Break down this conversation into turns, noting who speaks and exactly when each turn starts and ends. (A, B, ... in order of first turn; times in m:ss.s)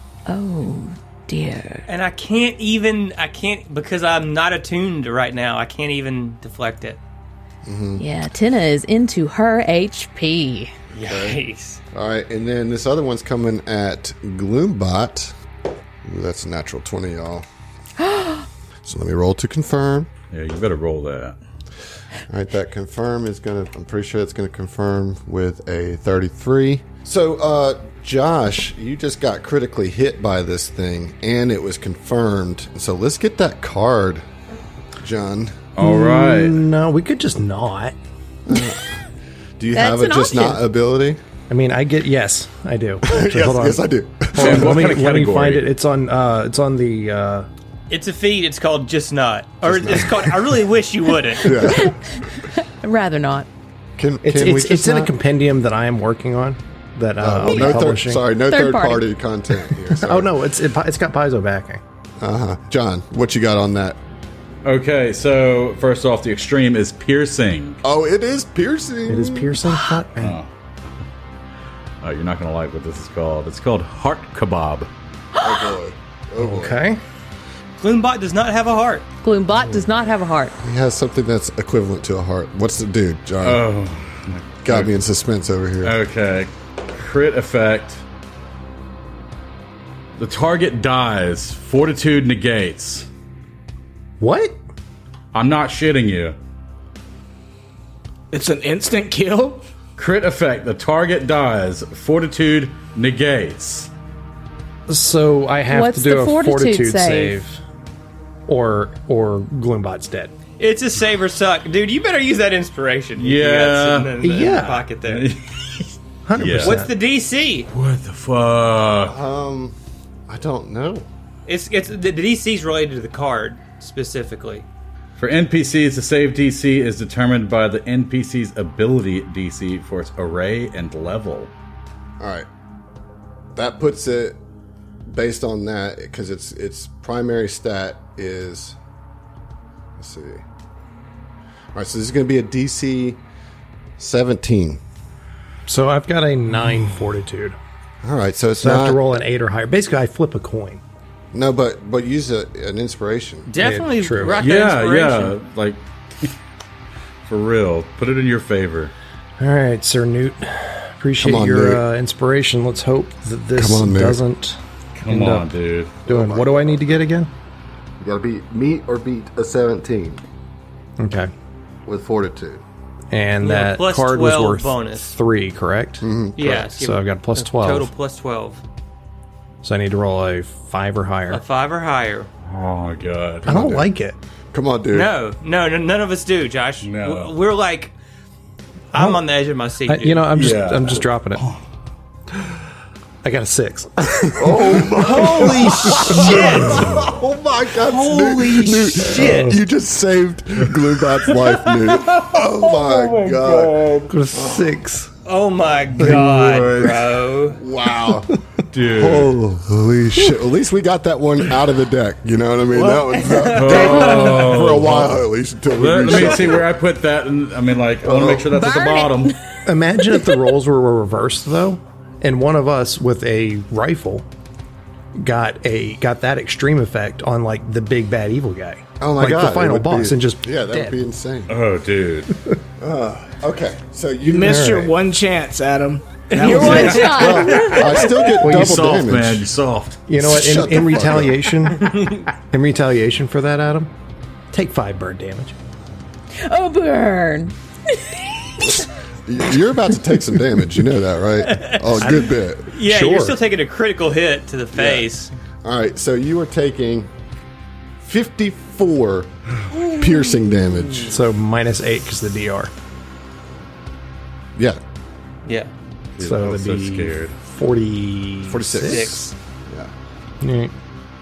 0:00.2-0:01.8 A
0:01.9-0:07.0 B
0:07.6-0:08.0 C
0:08.0-0:10.7 A
0:10.9-0:11.8 B
0:11.0-0:11.4 C
0:11.9-0:15.4 C
0:16.0-0:17.4 C
0:18.0-0:18.4 A
0:18.8-0:20.1 C
0:20.3-0:21.4 D
0:22.3-0:34.3 C
0:35.0-0:35.7 C
0:35.8-0:36.6 D
0:35.8-0:38.0 E
0:38.5-0:39.0 C
0:39.6-0:41.2 C
0:39.7-0:40.6 A
0:41.5-0:47.5 E
0:43.0-0:44.9 C
0:44.4-0:45.7 D
0:47.9-0:51.7 B
0:49.6-0:50.6 C
0:51.4-0:52.4 C
0:51.5-0:53.5 A
0:54.0-0:55.1 C
0:54.2-0:58.2 E
0:57.2-1:00.4 C
0:57.4-0:57.8 A
0:58.5-0:59.0 A
0:59.7-1:01.8 E
1:02.2-1:04.0 C
1:04.6-1:07.8 D
1:07.8-1:09.6 C
1:09.1-1:10.4 E
1:10.2-1:10.5 D
1:12.0-1:14.9 D
1:15.4-1:15.7 A
1:15.4-1:16.8 C
1:16.4-1:17.0 E
1:17.8-1:19.0 B
1:19.2-1:20.6 A
1:20.6-1:23.6 C
1:23.4-1:24.9 D
1:24.6-1:26.0 C
1:25.8-1:28.0 D
1:30.2-1:33.1 D
1:34.2-1:34.6 E
1:35.3-1:36.4 D
1:38.3-1:39.6 F
1:40.0-1:43.9 D
1:44.9-1:47.6 E
1:45.7-1:47.4 A
1:48.5-1:50.3 E
1:50.6-1:55.3 B
1:53.2-1:54.1 D
1:54.2-1:54.9 E
1:55.0-1:56.8 D
1:56.2-1:56.9 E
1:56.6-1:57.7 B
1:57.7-1:59.2 D
1:59.1-2:01.1 C
2:01.4-2:04.6 B
2:05.2-2:11.5 D
2:12.2-2:12.5 C
2:13.5-2:14.4 C
2:15.0-2:18.8 C
2:20.0-2:20.4 C
2:21.7-2:23.2 C
2:24.0-2:24.8 C
2:25.6-2:27.6 E
2:28.0-2:29.0 C
2:28.6-2:30.8 E
2:31.3-2:33.5 C
2:33.5-2:35.3 B
2:33.6-2:34.4 E
2:34.4-2:36.3 D
2:37.2-2:38.9 D
2:39.4-2:45.5 E
2:41.2-2:41.8 C
2:43.6-2:44.2 C
2:44.9-2:45.9 D
2:46.0-2:47.3 E
2:46.0-2:46.8 C
2:48.0-2:50.2 C
2:51.0-2:51.3 E
2:51.8-2:52.6 C
2:53.1-2:56.1 E
2:53.4-2:55.1 B
2:56.0-2:56.7 C
2:56.4-2:58.6 B
2:56.7-2:57.9 E
2:59.6-3:01.4 E
3:01.3-3:02.3 B
3:02.4-3:03.7 D
3:03.4-3:03.9 C
3:03.4-3:04.2 E
3:04.5-3:05.1 C
3:04.9-3:07.9 B
3:06.8-3:07.3 D
3:08.9-3:10.5 B
3:08.9-3:09.2 E
3:09.9-3:11.4 E
3:10.3-3:11.6 D
3:13.2-3:16.3 E
3:14.2-3:24.7 C
3:14.9-3:17.1 B
3:16.3-3:16.7 D
3:17.7-3:19.6 B
3:19.1-3:19.6 E
3:21.2-3:24.1 B
3:24.1-3:25.1 E
3:25.2-3:27.6 B
3:26.0-3:26.9 E
3:26.0-3:26.6 D
3:26.4-3:26.8 C
3:27.5-3:36.6 C
3:28.7-3:29.4 D
3:32.8-3:34.5 F
3:33.3-3:34.3 B
3:33.5-3:39.3 D
3:38.0-3:38.5 C
3:38.4-3:40.4 A
3:39.6-3:44.3 E
3:45.2-3:50.9 E
3:49.0-3:51.5 C
3:51.5-3:52.3 D
3:52.8-3:54.6 C
3:54.2-3:57.3 F
3:54.3-3:54.9 E
3:56.3-3:58.3 B
3:56.4-3:58.0 A
3:57.0-3:59.5 C
3:58.3-3:59.0 E
3:58.4-4:00.0 D
4:00.1-4:03.9 E
4:00.2-4:01.6 C
4:01.7-4:02.3 B
4:04.5-4:05.6 E
4:06.4-4:08.8 A
4:08.6-4:12.7 C
4:11.4-4:15.3 B
4:12.0-4:13.4 E
4:14.7-4:15.1 C
4:15.6-4:17.1 C
4:18.0-4:21.2 C
4:19.8-4:20.4 A
4:21.1-4:22.7 E
4:25.4-4:25.7 B
4:26.2-4:27.4 D
4:26.2-4:29.1 E
4:28.5-4:29.9 C
4:28.8-4:29.3 B
4:30.4-4:30.7 E